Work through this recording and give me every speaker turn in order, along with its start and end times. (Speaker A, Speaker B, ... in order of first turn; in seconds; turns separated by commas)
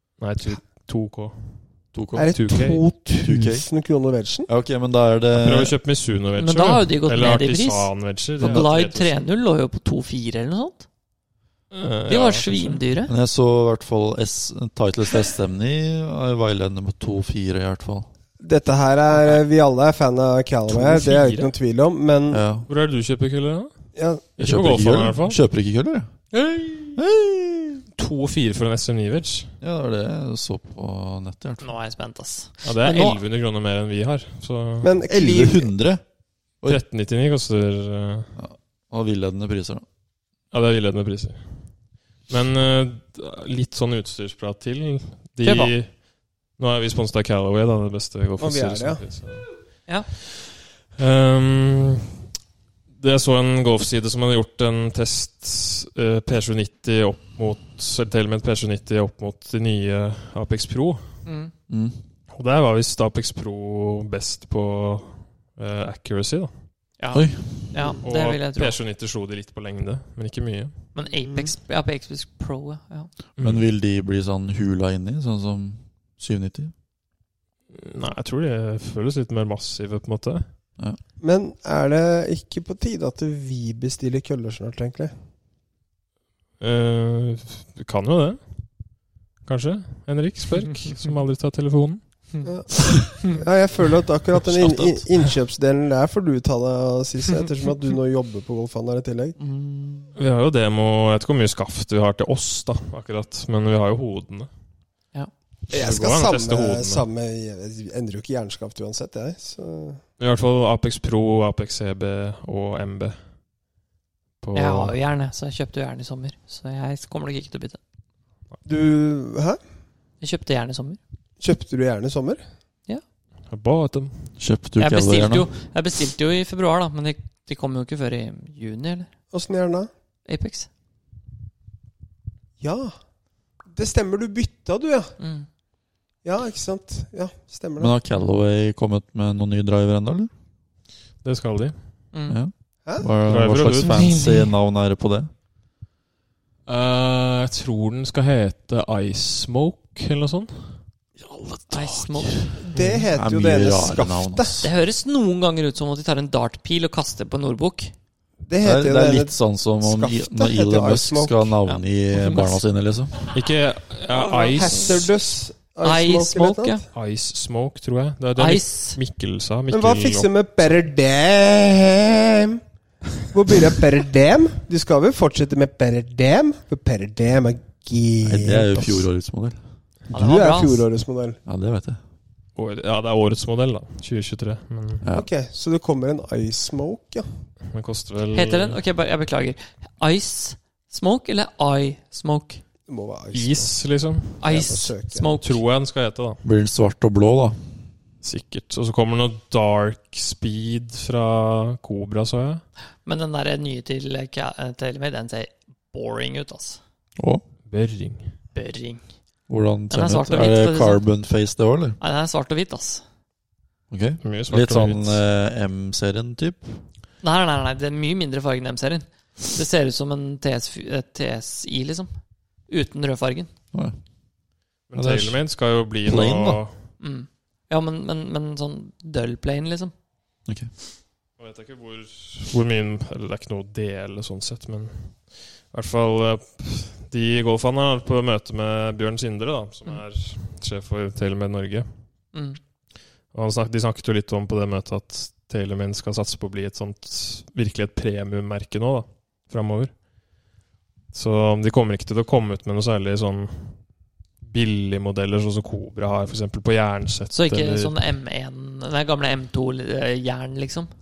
Speaker A: 0.2-2.8, Speaker B: 1.9-2.4, Speaker C: 2.1-4.5, Speaker B: 3.2-3.7, Speaker B: 4.5-5.7, Speaker A: 5.3-9.2, Speaker D: 6.4-10.8, Speaker B: 8.4-8.7, Speaker A: 11.7-12.8, Speaker D: 12.1-13.1, Speaker B: 13.1-18.1, Speaker C: 18.4-22.4, Speaker A: 20.7-21.5, Speaker B: 22.3-22.7, Speaker A: 22.7-23.7, Speaker C: 24.0-24.2, Speaker A: 24.4-25.4, Speaker B: 24.4-26.1, Speaker A: 26.3-26.9, Speaker B: 27.0-27.8, Speaker A: 28.0-29.6, Speaker B: 29.6-31.7, Speaker D: 31.6-33.2, Speaker A: 32.6-34.9, Speaker C: 34.8-35.7, Speaker B: 35.1-36.0, Speaker A: 36.7-38.3, Speaker B: 38.4-39.9, Speaker A: 40.5-49.5, Speaker D: 45.4-45.8, Speaker C: 48.4-49.1, Speaker A: 51.0-52.1, Speaker A: 53.0-61.2, Speaker D: 61.2-61.5, Speaker B: 61.7-62.0, Speaker A: 62.3-66.7, Speaker D: 67.0-68.8, Speaker B: 67.1-67.9, Speaker A: 68.0-70.9, Speaker D: 70.9-73.1, Speaker C: 71.2-71.5, Speaker A: 73.4-73.7, Speaker B: 73.4-76.7, Speaker A: 77.7-80.5, Speaker C: 81.2-85.1, Speaker A: 86.6-92.2, Speaker C: 92.5-99.4, Speaker A: 94.4-95.2, Speaker D: 99.4-100.1, Speaker A: 100.2-104.5, Speaker A: 105.7-107.0, Speaker C: 105.7-110.0, Speaker A: 110.2-113.2, Speaker A: 114.4-115.0, Speaker D: 114.5-117.8, Speaker C: 118.7-119.6, Speaker D: 120.2-121.0, Speaker C: 121.4-122.4, Speaker A: 123.5-124.3, Speaker B: 124.4-125.5, Speaker D: 124.8-129.1, Speaker C: 129.3-129.9, Speaker D: 130.3-130.7, Speaker C: 132.6-132.9, Speaker C: 133.7-135.2, Speaker D: 135.2-135.5, Speaker C: 136.2-137.9, Speaker B: 137.8-140.3, Speaker A: 141.2-141.8, Speaker D: 142.1-142.4, Speaker B: 142.3-145.3, Speaker A: 143.2-144.1, Speaker D: 143.9-144.5, Speaker A: 146.7-150.8, Speaker B: 151.2-154.7, Speaker D: 151.7-152.4, Speaker C: 152.6-154.6, Speaker A: 152.7-153.1, Speaker D: 154.6-157.9, Speaker C: 158.5-161.5, Speaker B: 158.6-163.3, Speaker D: 161.7-162.5, Speaker A: 163.3-165.1, Speaker C: 164.1-166.8, Speaker D: 165.8-166.8, Speaker A: 166.9-170.3, Speaker D: 168.4-169.0, Speaker C: 169.7-172.6, Speaker C: 173.3-179.1, Speaker B: 178.2-179.6, Speaker D: 180.1-180.8, Speaker C: 180.1-181.4, Speaker B: 181.5-182.0, Speaker A: 182.6-185.0, Speaker C: 185.1-187.3, Speaker A: 187.7-188.8, Speaker D: 188.3-192.6, Speaker C: 192.9-193.7, Speaker A: 193.3-194.4, Speaker D: 194.4-195.6, Speaker C: 194.4-195.3, Speaker A: 195.4-196.4, Speaker B: 196.4-197.7, Speaker A: 198.2-202.6, Speaker D: 203.1-206.8, Speaker B: 207.2-207.4, Speaker A: 207.7-208.4, Speaker D: 208.5-209.1, Speaker B: 209.5-212.0, Speaker D: 209.9-211.0, Speaker D: 212.0-213.0, Speaker B: 213.9-216.8, Speaker A: 214.2-215.2, Speaker D: 217.2-222.1, Speaker D: 222.7-223.5, Speaker A: 224.9-226.8, Speaker B: 224.9-225.4, Speaker B: 226.1-226.6, Speaker D: 227.0-229.9, Speaker A: 231.4-241.9, Speaker D: 242.3-242.6, Speaker A: 243.3-249.9, Speaker A: 251.1-253.8, Speaker A: 254.4-257.9, Speaker D: 257.3-260.9